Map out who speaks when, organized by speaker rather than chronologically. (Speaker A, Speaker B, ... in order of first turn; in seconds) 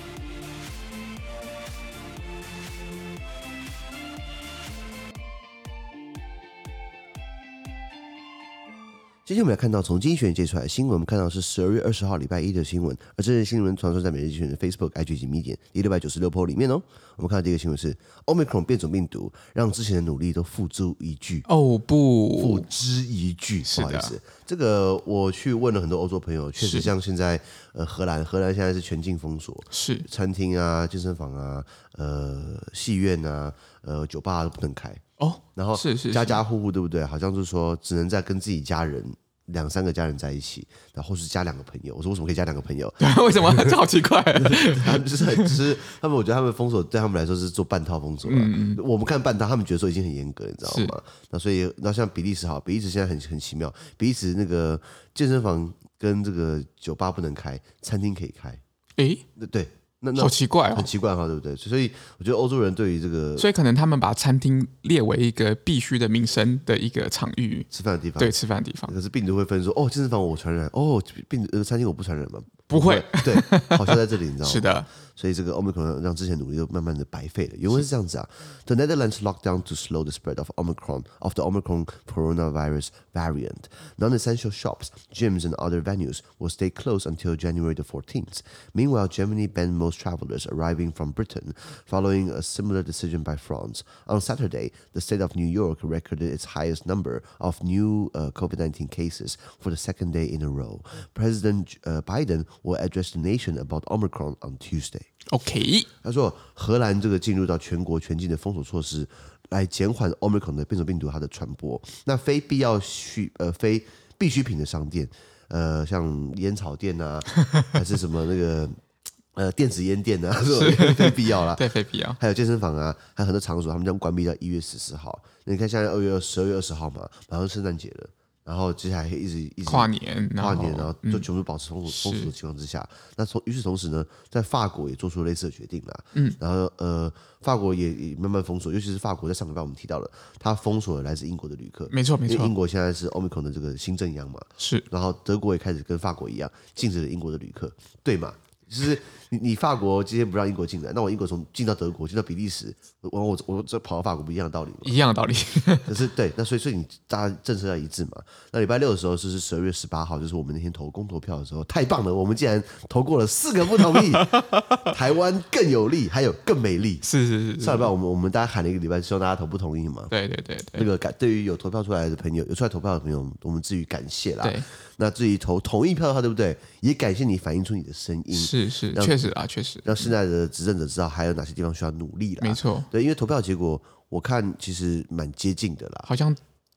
Speaker A: 9.2-21.4, 22.4-35.0, 35.5-43.8, 44.3-58.6, 59.4-63.5, 67.7-68.3, 68.9-105.1, 106.0-118.8, 119.3-154.9, 155.8-167.1, 167.6-170.1, 170.7-179.3, 179.8-186.1
Speaker B: 21.5-22.7, 23.6-24.1, 26.6-26.9, 29.7-30.1, 35.2-36.4, 43.0-45.6, 48.2-48.8, 50.6-51.0, 59.0-59.2, 60.1-60.9, 63.4-68.9, 72.7-74.9, 105.3-105.9, 120.5-122.2, 129.7-131.2, 131.9-132.3, 141.9-142.5, 144.6-144.8, 154.8-155.9, 163.9-164.8, 167.0-167.9, 170.1-170.9, 174.4-174.7, 178.3-180.1, 182.4-182.9, 186.1-186.4